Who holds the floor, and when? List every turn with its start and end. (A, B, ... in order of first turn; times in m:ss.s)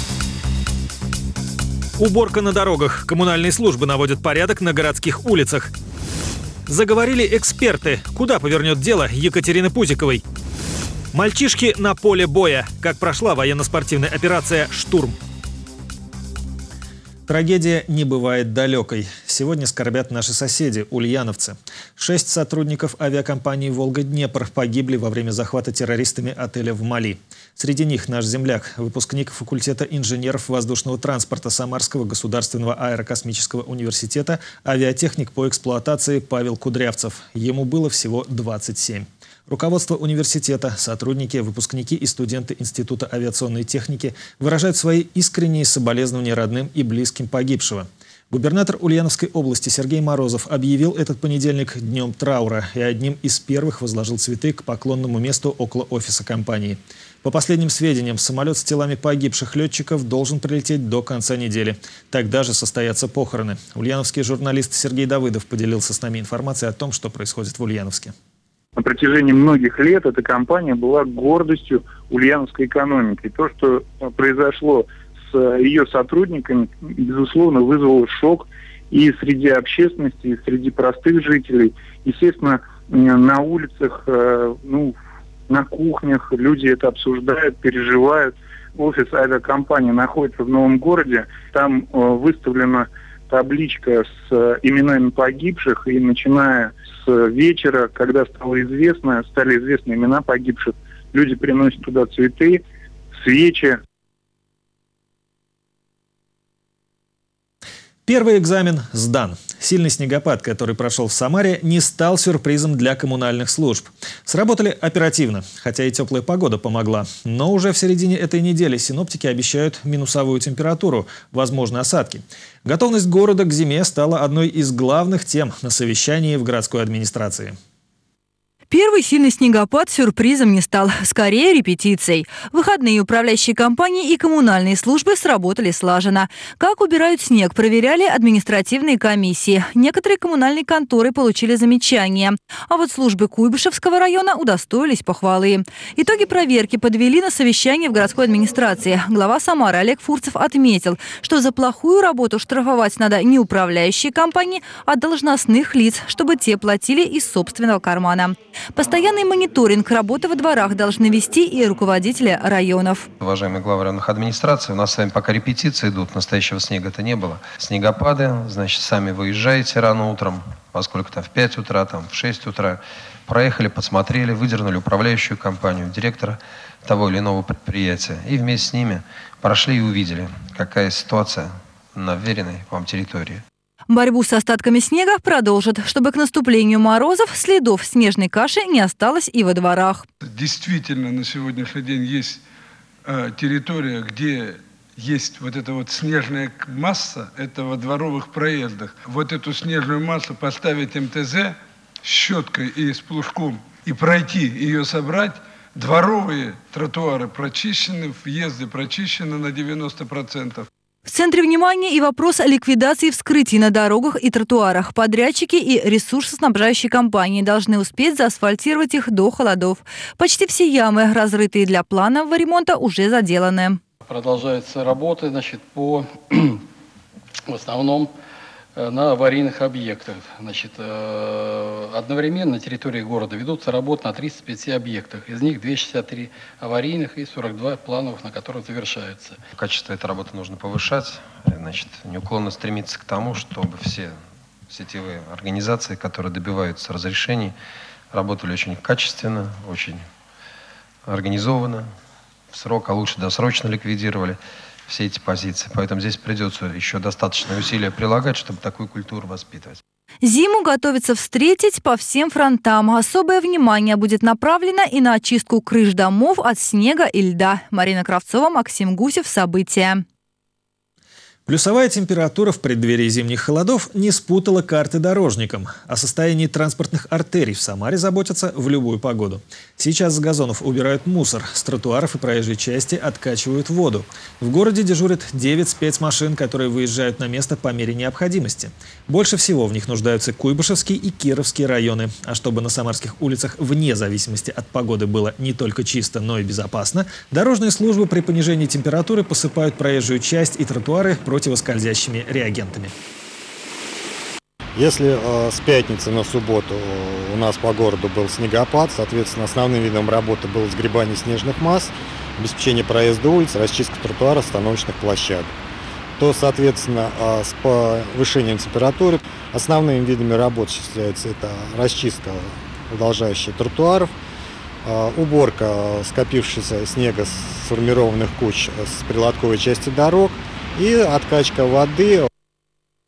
0:02.0-0:05.7 A
0:06.7-0:10.2 A
0:11.1-0:15.2 A
0:17.3-1:08.1 A
1:08.8-1:25.0 B
1:25.5-1:42.6 B
1:43.2-1:43.8 B
1:48.1-2:07.6 A
2:08.7-2:43.1 C
2:43.2-3:03.4 D
3:03.9-3:10.1 C
3:10.2-3:12.4 E
3:13.0-3:30.7 E
3:31.1-3:43.8 C
3:44.0-3:46.6 F
3:47.5-3:48.1 F
3:48.8-3:59.4 F
3:59.6-4:04.2 D
4:04.7-4:07.6 D
4:08.1-4:10.0 D
4:11.1-4:11.9 D
4:12.5-4:19.8 D
4:20.2-4:30.0 C
4:31.5-5:02.9 A
5:04.8-5:15.5 G
5:16.2-5:24.1 G
5:24.8-5:32.3 G